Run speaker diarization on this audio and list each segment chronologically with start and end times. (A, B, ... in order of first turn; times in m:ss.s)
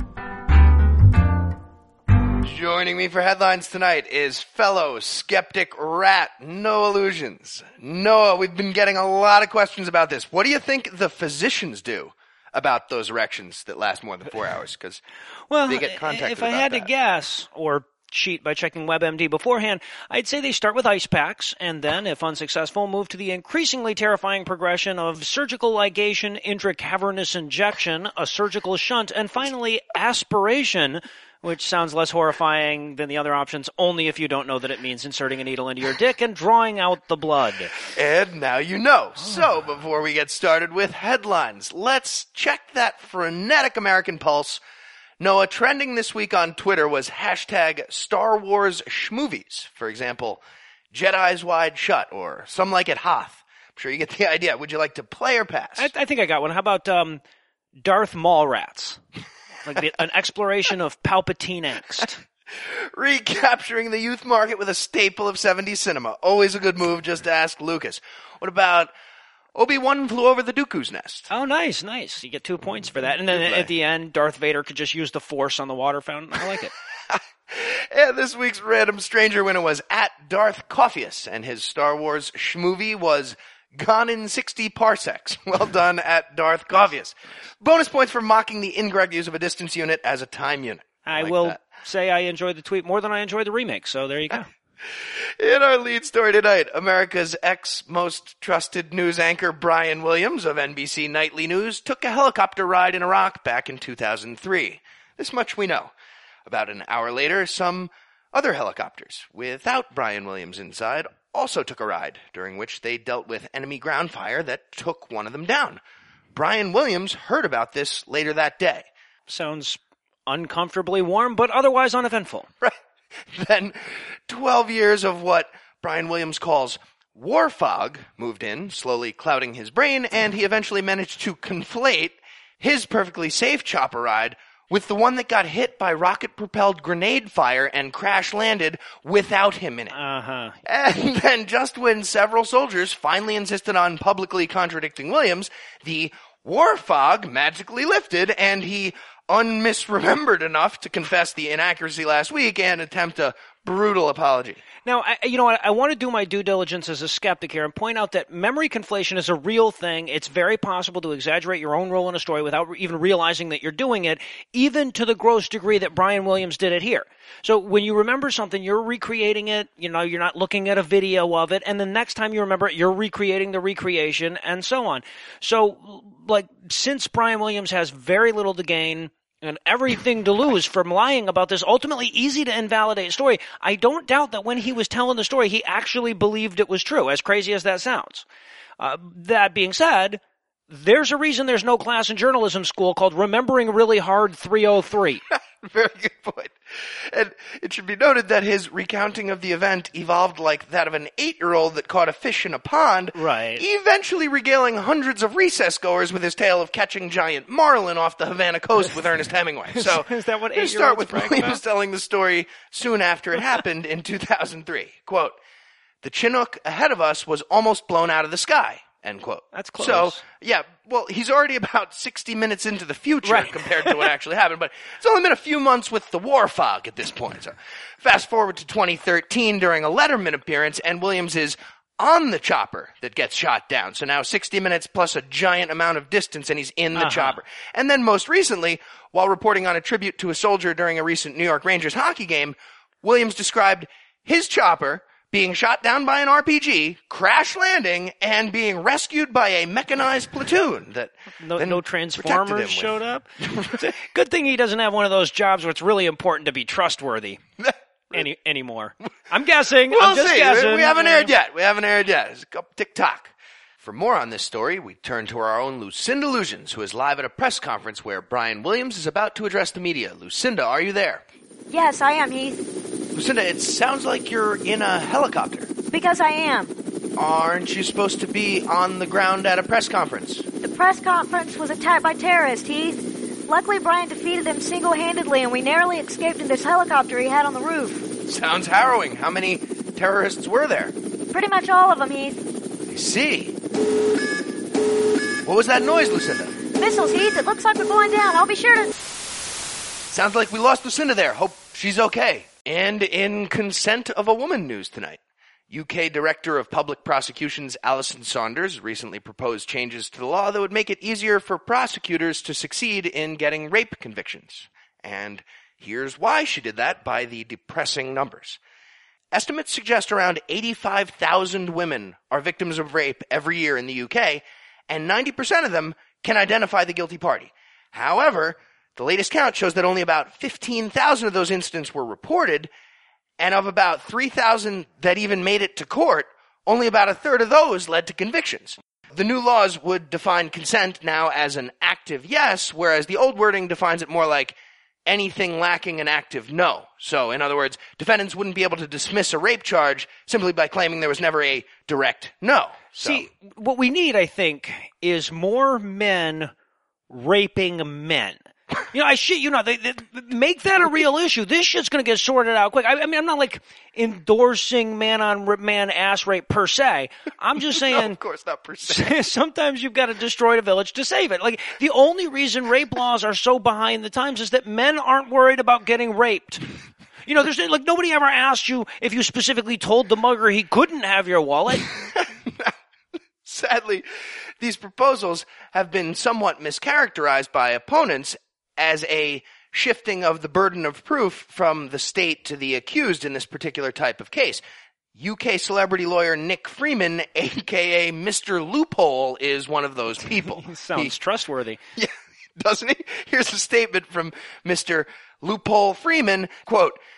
0:02.4-0:15.0 A
0:15.5-0:37.8 B
0:15.6-0:16.9 A
0:37.9-0:44.6 A
0:45.2-0:55.9 A
0:55.8-0:57.2 B
0:57.8-0:59.0 B
0:59.6-1:02.2 B
1:02.5-1:08.9 A
1:09.5-1:11.3 A
1:11.3-1:16.7 B
1:13.3-1:13.7 A
1:17.1-1:31.6 A
1:31.0-1:34.5 B
1:35.0-1:45.9 A
1:46.4-1:55.8 A
1:56.3-1:58.9 A
1:59.3-2:02.5 B
2:03.3-2:20.0 A
2:19.9-2:20.6 B
2:20.6-2:34.6 A
2:34.8-3:08.2 B
3:08.8-3:15.2 B
3:15.3-3:35.4 A
3:23.1-3:23.6 B
3:29.7-3:31.6 B
3:36.0-4:13.8 A
3:39.5-3:40.2 B
3:43.2-3:44.1 B
3:56.9-3:57.4 B
4:11.4-4:17.4 B
4:17.6-4:18.2 A
4:18.1-4:21.3 B
4:19.9-4:31.2 A
4:31.7-4:32.6 C
4:33.1-4:35.7 A
4:35.9-4:36.7 C
4:37.1-4:40.4 A
4:40.6-4:48.1 C
4:48.2-4:50.9 A
4:51.3-4:52.4 C
4:52.9-4:53.6 A
4:55.4-4:56.5 A
4:56.8-4:58.9 C
5:00.1-5:18.6 A
5:19.3-5:32.7 A
5:33.4-5:53.3 A
5:53.0-5:56.5 B
5:57.1-6:08.2 B
6:07.7-6:09.2 A
6:08.8-6:16.6 B
6:17.2-6:21.9 B
6:21.9-6:22.7 A
6:23.4-6:24.0 A
6:24.6-6:34.6 A
6:35.1-6:41.1 A
6:40.2-6:41.8 B
6:42.0-6:47.0 A